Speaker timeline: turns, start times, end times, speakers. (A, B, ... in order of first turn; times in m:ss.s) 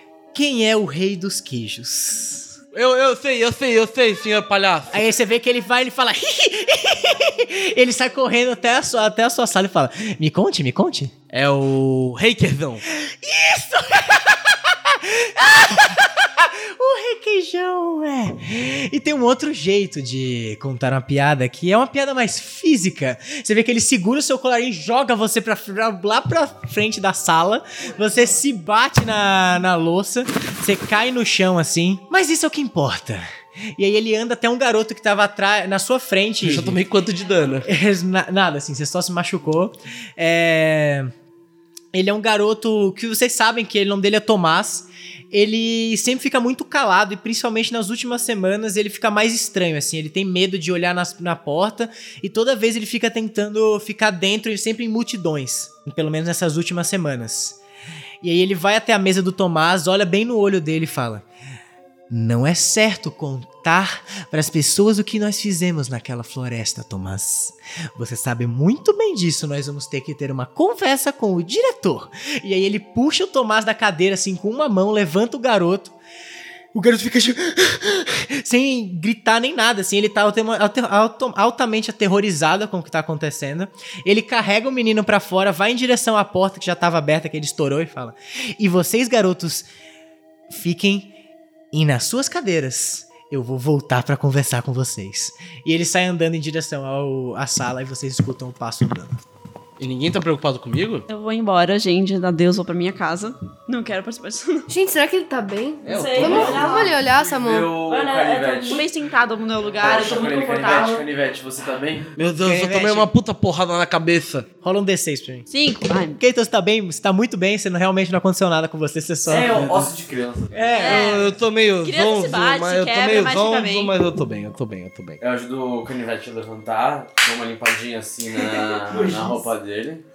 0:00.3-0:02.5 A
0:02.7-0:05.0 B
0:04.9-0:11.1 A
0:11.3-0:12.8 B
0:12.9-0:36.8 A
0:36.4-0:37.7 B
0:37.6-0:41.1 A
0:41.9-0:57.6 A
0:58.2-1:01.2 A
1:02.1-1:15.9 A
1:16.7-1:29.7 A
1:30.5-1:31.1 A
1:31.7-1:39.2 A
1:39.8-1:41.1 B
1:41.1-1:44.7 C
1:44.7-1:47.7 D
1:45.8-1:46.9 B
1:45.9-1:47.0 C
1:46.3-1:46.6 E
1:47.2-1:48.8 E
1:47.8-1:51.0 C
1:49.8-1:52.1 E
1:52.2-1:54.4 B
1:52.4-1:53.1 A
1:54.6-1:55.5 A
1:55.5-1:56.2 C
1:56.2-1:59.9 A
1:59.3-2:00.8 E
2:00.5-2:01.2 A
2:00.8-2:01.3 C
2:00.8-2:05.2 B
2:01.8-2:03.9 C
2:05.2-2:10.0 E